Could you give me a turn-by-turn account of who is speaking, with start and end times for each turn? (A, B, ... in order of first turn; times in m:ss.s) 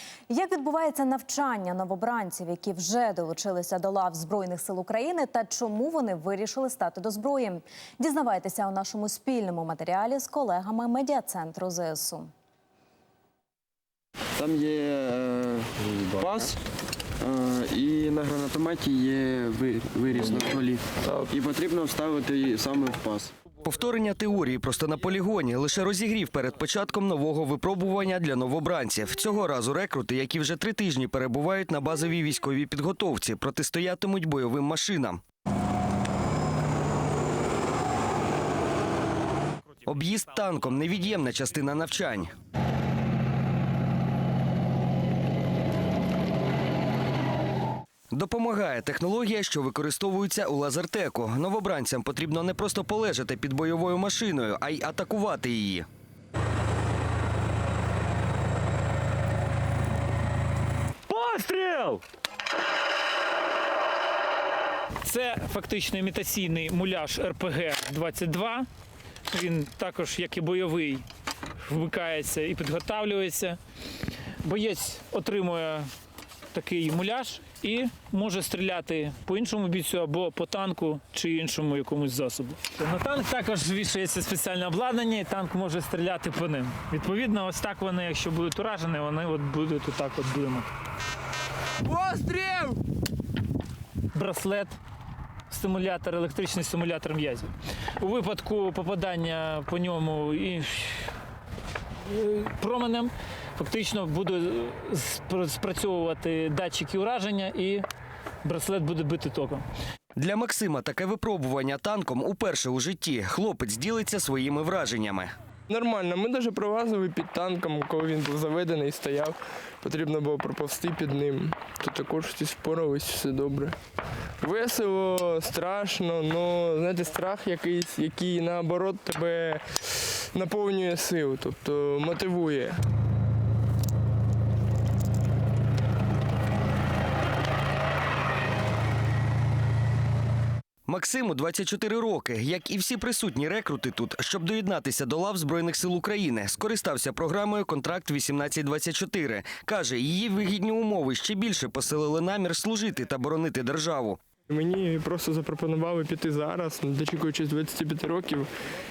0:00.3-0:12.3 A
0:14.4-0:16.6 B
0:17.2-0:23.3 B
0:23.6-0:35.2 C
0:39.8-0:42.3 C
0:48.1-0:55.8 C
1:01.1-1:02.0 D
1:05.0-1:08.7 D
1:09.3-1:11.0 D
1:11.6-1:13.6 D
1:14.4-1:15.9 D
1:16.5-1:30.7 D
1:31.9-1:32.7 D
1:34.1-1:34.8 D
1:35.5-1:41.1 D
1:42.0-1:47.8 D
1:48.4-1:49.6 D
1:50.2-1:55.3 C
1:55.7-2:03.8 E
2:04.4-2:12.8 E
2:20.9-2:34.2 C
2:34.5-2:38.5 E